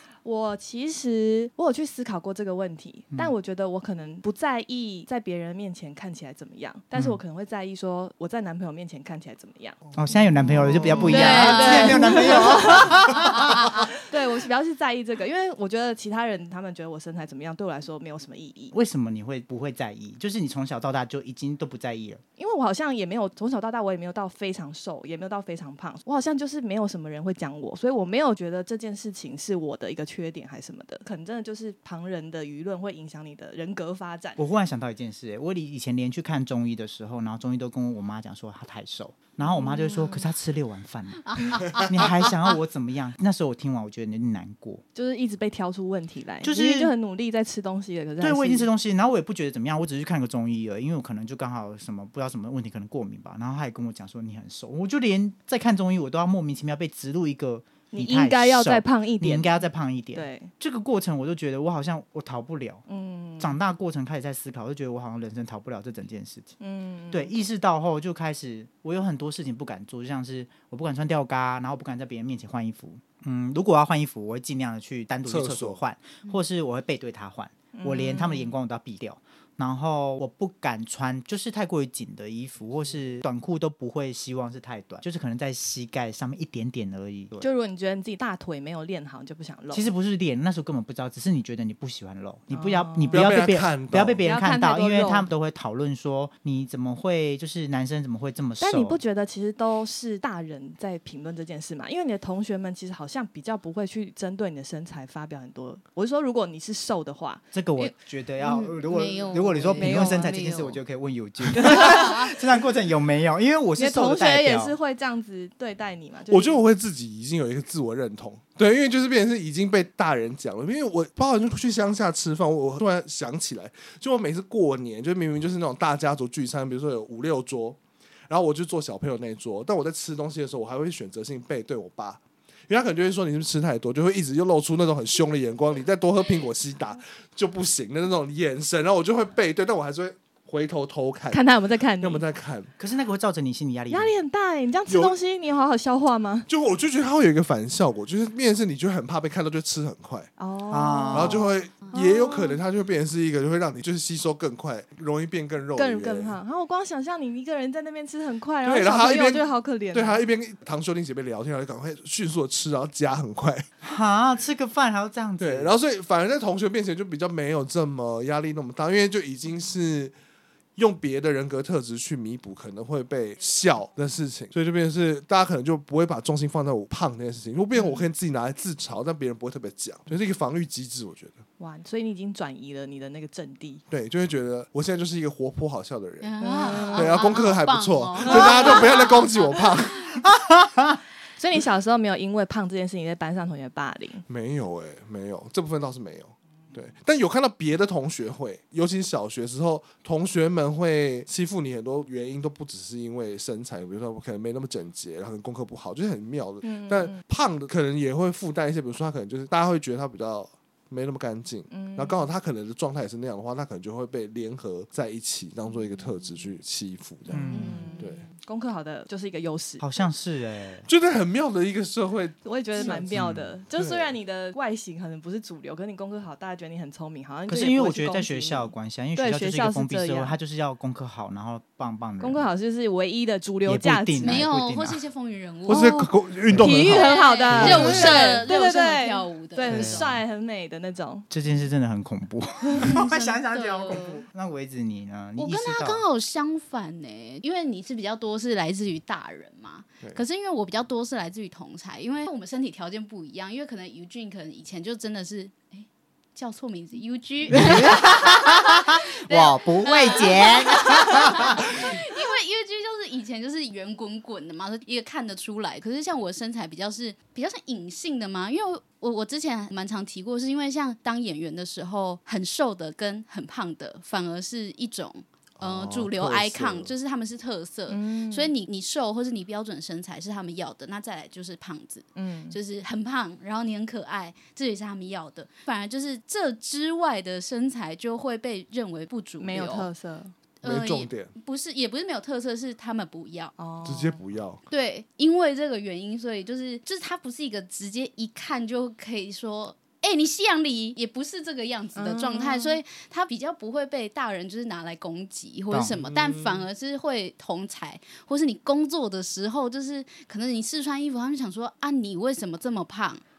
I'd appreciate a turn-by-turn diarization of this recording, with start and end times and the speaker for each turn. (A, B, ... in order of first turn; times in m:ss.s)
0:00.2-0:09.8 A
0:10.0-0:13.9 B
0:10.7-0:11.1 C
0:10.7-0:18.7 A
0:11.0-0:12.5 D
0:18.7-0:22.2 B
0:22.4-0:34.4 A
0:34.4-0:44.8 B
0:39.4-0:40.2 A
0:41.3-0:42.3 D
0:44.9-0:48.7 A
0:46.4-0:46.9 B
0:48.2-1:02.8 B
0:57.9-0:59.6 A
1:00.1-1:00.5 A
1:02.9-1:03.5 A
1:03.4-1:06.5 B
1:06.6-1:07.3 A
1:07.1-1:27.5 B
1:15.3-1:15.8 C
1:17.7-1:18.5 A
1:27.4-1:29.9 A
1:29.7-1:39.0 B
1:32.5-1:33.4 A
1:33.1-1:34.2 C
1:34.2-1:35.3 A
1:38.6-1:47.9 A
1:47.5-1:54.7 B
1:48.4-1:50.8 D
1:49.6-1:50.4 A
1:51.5-1:52.2 A
1:51.8-1:52.1 D
1:53.8-1:56.6 A
1:56.3-2:07.8 C
2:08.3-2:21.4 C
2:21.3-2:22.2 A
2:22.0-2:22.7 C
2:22.8-2:24.1 B
2:23.9-2:26.5 A
2:24.9-2:25.1 C
2:26.5-2:30.3 C
2:30.4-2:32.6 A
2:30.7-2:31.5 B
2:31.1-2:36.4 C
2:35.8-2:40.2 A
2:38.6-2:43.6 C
2:43.8-2:45.8 B
2:45.4-2:50.1 C
2:50.8-3:01.4 C
2:57.7-2:58.0 A
3:01.6-3:03.8 A
3:03.9-3:10.2 C
3:06.2-3:09.6 D
3:06.4-3:07.2 A
3:08.2-3:09.0 A
3:10.2-3:11.0 B
3:11.4-3:14.2 A
3:14.3-3:38.2 C
3:26.6-3:27.2 A
3:31.7-3:32.2 A
3:37.3-3:37.9 B
3:37.3-3:39.9 A
3:37.5-3:38.0 D
3:39.8-3:40.9 B
3:40.8-3:44.1 C
3:42.4-3:50.4 A
3:43.1-3:43.4 B
3:47.5-3:52.4 B
3:52.2-3:54.4 A
3:53.6-3:55.0 B
3:54.2-3:56.0 D
3:55.7-3:58.4 C
3:56.6-4:01.3 A
3:56.6-4:00.1 D
3:57.5-3:58.1 B
3:59.7-4:00.2 B
4:01.3-4:06.0 B
4:02.8-4:04.2 D
4:05.4-4:49.9 D
4:17.5-4:21.7 B
4:35.6-4:36.9 C
4:37.9-4:38.5 A
4:42.2-4:42.6 A
4:49.4-4:50.3 A
4:50.6-4:53.5 D
4:50.6-4:51.3 C
4:53.6-4:54.2 A
4:53.8-4:54.6 C
4:54.7-5:13.2 D
5:02.0-5:02.8 A
5:05.7-5:06.0 B
5:06.0-5:06.6 C